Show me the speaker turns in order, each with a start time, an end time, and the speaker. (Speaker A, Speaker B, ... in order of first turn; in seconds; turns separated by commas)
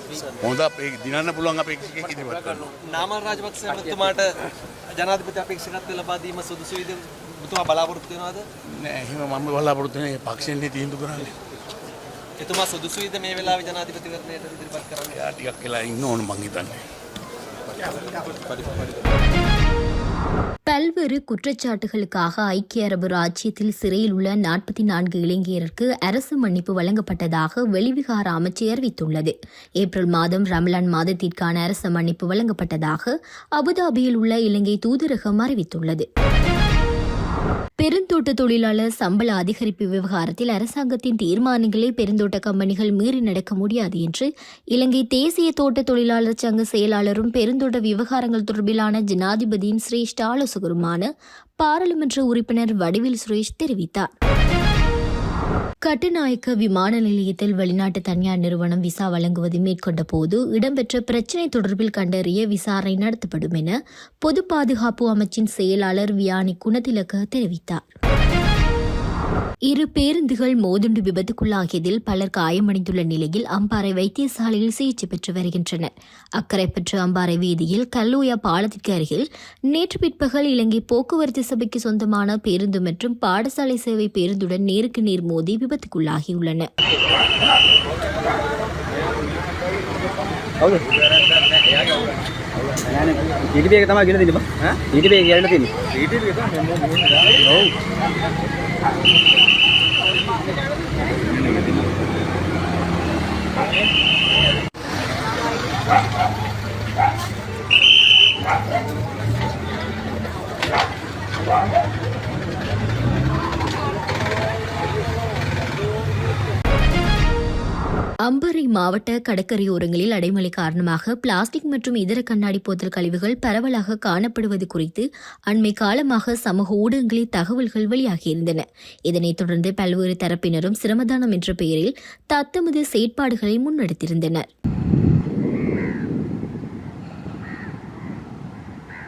Speaker A: 0.3-2.7, Speaker B: 2.9-4.4, Speaker B: 5.0-8.4, Speaker A: 8.7-11.3, Speaker B: 12.4-15.2, Speaker A: 15.1-16.8, Speaker C: 20.7-36.1, Speaker C: 37.8-51.1, Speaker C: 51.6-54.1, Speaker C: 55.9-67.8, Speaker C: 69.7-86.7, Speaker D: 92.9-95.7, Speaker C: 118.3-134.5